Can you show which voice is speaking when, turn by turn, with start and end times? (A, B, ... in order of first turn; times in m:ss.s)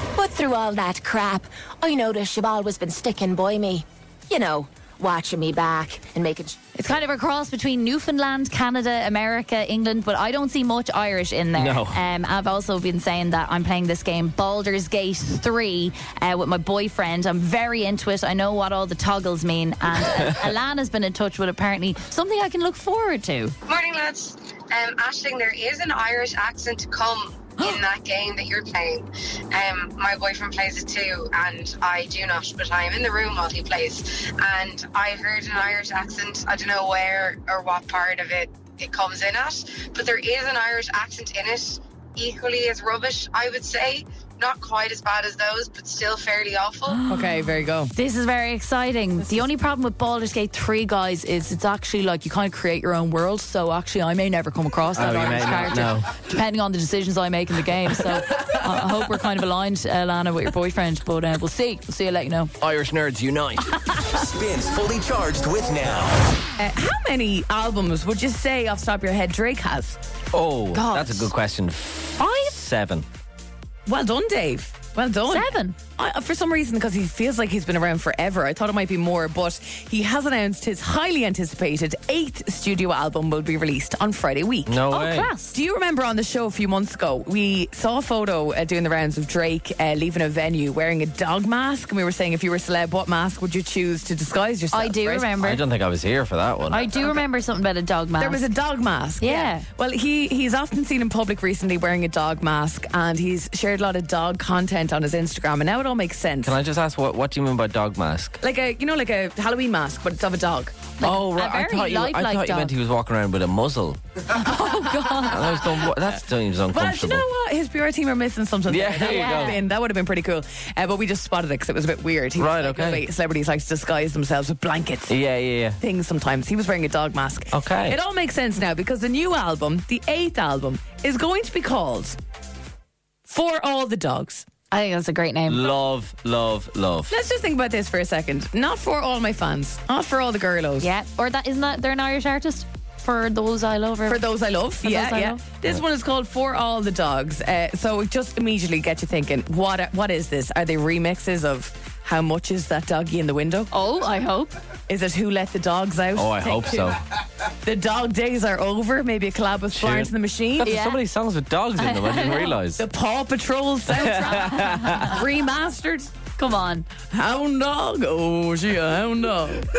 0:00.2-0:06.6 A
0:06.7-0:23.5 B
0:11.6-0:12.0 C
0:23.7-0:47.0 D
0:46.9-1:02.5 B
0:47.1-0:47.9 E
0:54.9-0:56.1 C
1:02.6-1:03.8 C
1:04.1-1:06.3 F
1:06.6-1:10.0 E
1:10.3-1:13.0 C
1:10.7-1:11.3 B
1:12.2-1:12.5 B
1:13.8-1:24.8 E
1:15.3-1:15.7 B
1:24.6-1:25.3 C
1:24.9-1:25.6 B
1:25.5-1:35.3 E
1:34.7-1:35.6 B
1:35.4-1:37.1 C
1:36.7-1:38.4 B
1:38.2-1:46.6 E
1:39.2-1:39.6 B
1:46.4-1:48.4 C
1:48.4-1:50.8 E
1:51.0-1:52.7 B
1:51.0-1:54.0 C
1:54.3-1:55.7 B
1:55.2-1:57.2 C
1:56.7-2:05.2 E
1:58.7-1:59.6 C
1:59.0-1:59.6 B
2:02.4-2:03.0 C
2:05.1-2:05.8 C
2:05.8-2:12.2 E
2:07.5-2:08.0 C
2:13.3-2:14.5 E
2:14.7-2:15.7 B
2:15.5-2:17.1 C
2:17.1-2:20.9 E
2:20.8-2:24.2 B
2:24.1-2:33.7 E
2:24.8-2:25.4 B
2:33.7-2:34.5 B
2:34.9-2:37.0 E
2:36.1-2:37.0 C
2:37.6-2:40.7 E
2:39.7-2:42.8 C
2:40.6-2:41.0 B
2:41.8-2:42.6 B
2:42.8-2:46.1 E
2:43.9-2:45.2 C
2:44.6-2:45.1 B
2:46.4-2:46.9 B
2:47.1-2:49.7 E